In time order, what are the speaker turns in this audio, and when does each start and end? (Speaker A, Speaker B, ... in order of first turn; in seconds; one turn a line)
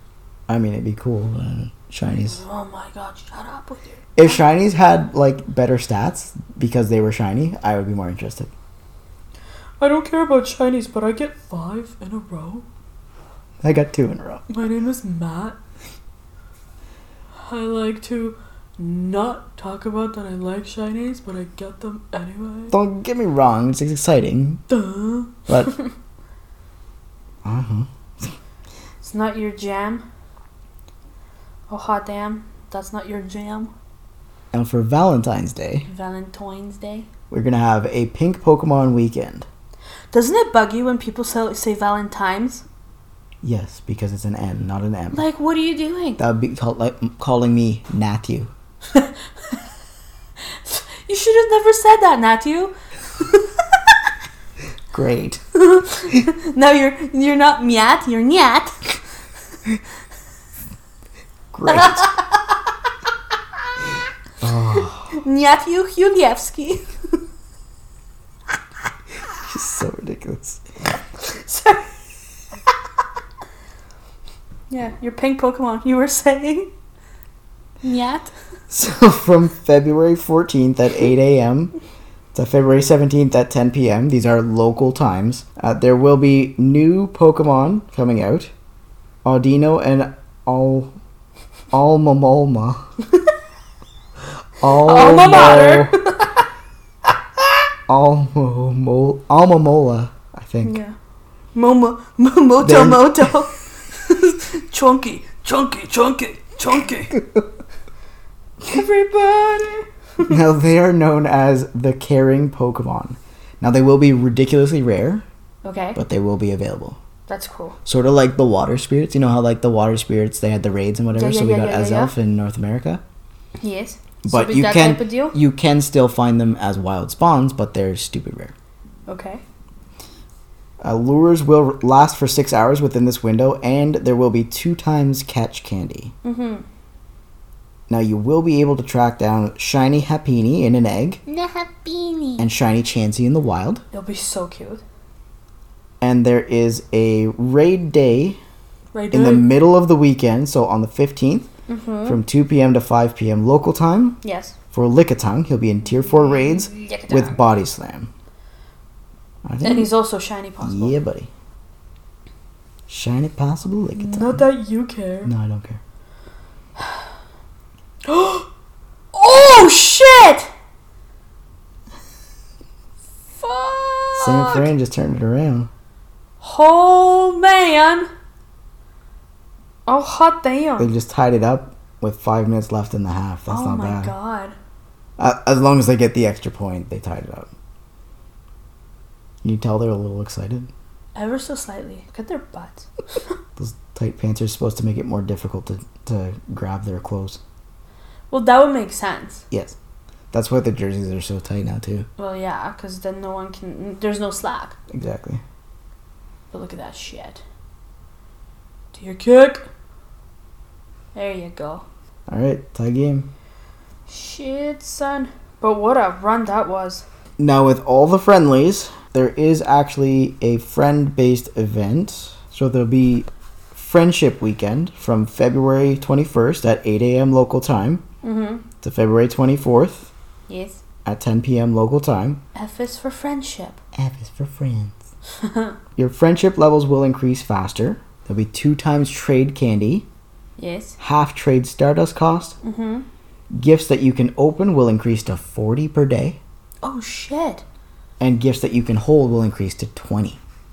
Speaker A: 0.5-2.4
Speaker B: 2.3-4.4
Speaker A: 4.2-8.5
Speaker B: 9.8-12.7
Speaker A: 13.6-14.4
Speaker B: 14.5-15.6
Speaker B: 17.4-22.8
Speaker A: 22.7-24.6
Speaker B: 24.7-25.9
Speaker A: 25.5-25.8
Speaker A: 27.4-28.3
Speaker B: 29.0-30.0
Speaker B: 31.7-33.7
Speaker A: 34.5-35.9
Speaker B: 35.9-37.1
Speaker A: 37.3-39.5
Speaker B: 40.1-42.6
Speaker A: 43.4-45.2
Speaker B: 45.1-46.2
Speaker A: 46.2-48.5
Speaker B: 50.6-54.0
Speaker A: 54.9-55.4
Speaker B: 55.5-58.8
Speaker A: 61.5-62.1
Speaker B: 61.7-62.6
Speaker A: 64.4-65.2
Speaker B: 65.1-66.9
Speaker A: 69.3-70.6
Speaker B: 71.2-71.9
Speaker B: 74.7-76.7
Speaker B: 77.8-78.3
Speaker A: 78.7-81.7
Speaker A: 82.3-88.5
Speaker A: 89.2-90.9
Speaker A: 91.7-92.8
Speaker A: 94.6-96.0
Speaker B: 94.7-96.5
Speaker A: 97.9-100.8
Speaker B: 100.6-100.9
Speaker B: 101.5-107.2
Speaker A: 102.6-103.4
Speaker B: 108.6-110.4
Speaker A: 110.2-115.2
Speaker B: 115.6-116.0
Speaker A: 116.0-117.0
Speaker B: 117.3-117.8
Speaker A: 117.8-123.0
Speaker B: 121.1-122.1
Speaker B: 123.6-125.3
Speaker A: 124.2-128.5
Speaker B: 129.1-129.4
Speaker A: 130.8-136.1
Speaker B: 136.2-136.6
Speaker A: 137.9-141.2
Speaker B: 141.3-142.5
Speaker A: 142.4-143.8
Speaker B: 143.9-144.8
Speaker A: 146.0-148.4
Speaker B: 148.9-149.5
Speaker A: 149.1-151.5
Speaker B: 151.7-152.2
Speaker A: 152.0-154.2
Speaker B: 154.2-154.5
Speaker A: 154.7-158.1
Speaker B: 155.9-157.4
Speaker A: 159.4-159.9
Speaker B: 159.6-161.0
Speaker A: 160.6-161.3
Speaker A: 162.9-164.4
Speaker B: 164.0-165.3
Speaker A: 165.2-165.8
Speaker B: 168.0-168.5
Speaker B: 169.1-170.5
Speaker B: 173.4-174.7
Speaker A: 174.2-175.7
Speaker B: 176.4-178.1
Speaker B: 179.9-180.9
Speaker A: 180.8-184.1
Speaker B: 183.5-184.5
Speaker A: 185.2-187.5
Speaker A: 189.4-190.7
Speaker B: 191.2-193.3
Speaker A: 193.6-197.4
Speaker B: 198.3-199.4
Speaker A: 199.5-199.8
Speaker A: 200.3-202.1
Speaker B: 202.2-204.8
Speaker A: 204.9-205.4
Speaker B: 206.5-207.4
Speaker B: 208.9-209.7
Speaker B: 211.1-211.8
Speaker A: 212.3-213.3
Speaker B: 214.1-217.0
Speaker A: 217.4-228.0
Speaker B: 228.2-228.6
Speaker A: 228.8-230.1
Speaker B: 230.5-230.8
Speaker A: 231.0-232.4
Speaker B: 232.5-233.8
Speaker A: 233.9-235.0
Speaker B: 235.4-235.8
Speaker A: 236.0-240.1
Speaker B: 240.6-241.0
Speaker A: 241.0-242.6
Speaker B: 242.6-243.1
Speaker A: 243.5-246.4
Speaker B: 246.8-247.6
Speaker A: 248.2-250.4